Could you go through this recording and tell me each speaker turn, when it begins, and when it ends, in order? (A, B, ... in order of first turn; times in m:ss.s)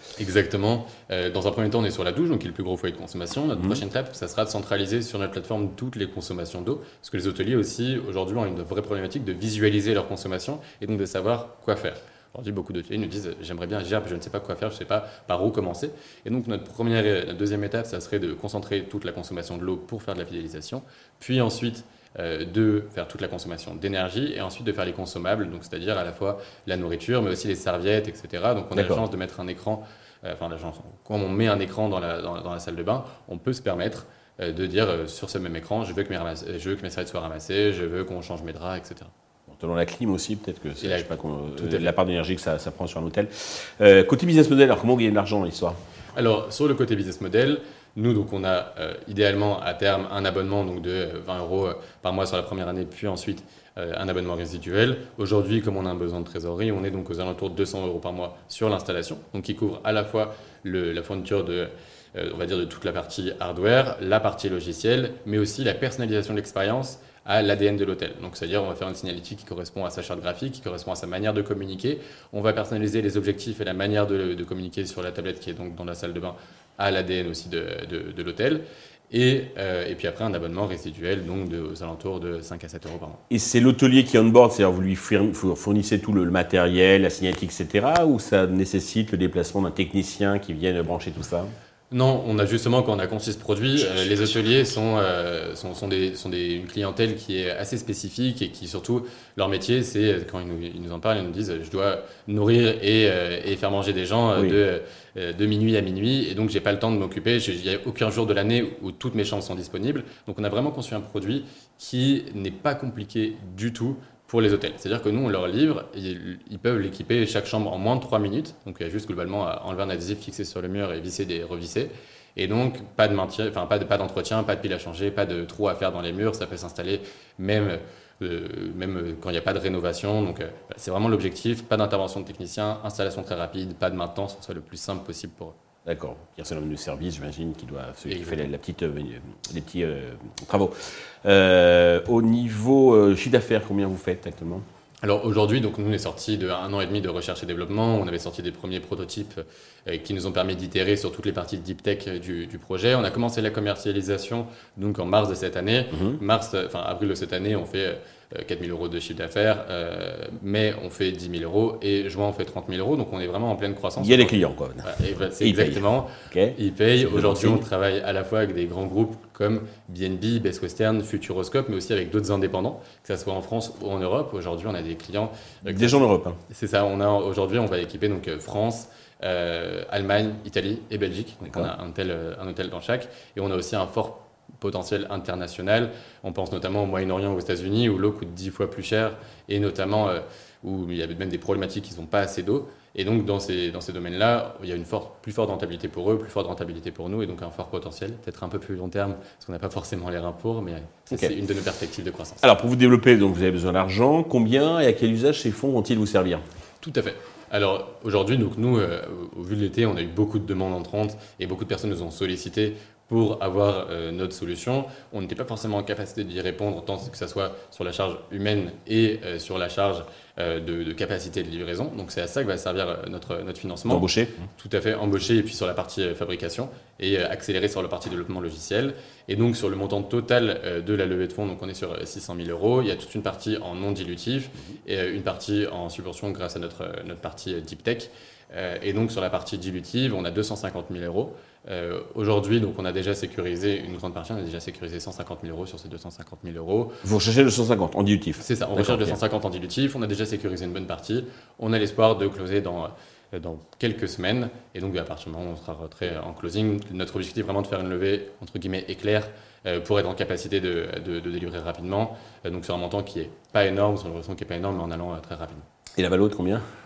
0:00.2-0:39.1 A
0:03.5-0:03.8 B
0:28.7-0:29.0 B
0:39.5-0:45.8 B
0:40.8-0:41.9 A
0:46.1-1:23.2 A
1:23.3-1:31.5 B
1:31.9-2:15.6 A
2:15.8-2:20.7 B
2:18.1-2:18.4 A
2:21.2-2:24.6 B
2:25.0-3:22.4 A
2:35.9-2:36.2 B
2:44.0-2:47.6 B
2:55.6-2:56.4 B
3:01.4-3:01.7 B
3:22.4-3:26.4 B
3:26.8-4:07.0 A
3:43.9-3:44.4 B
4:07.0-4:09.2 B
4:08.4-4:25.6 A
4:26.0-4:26.6 B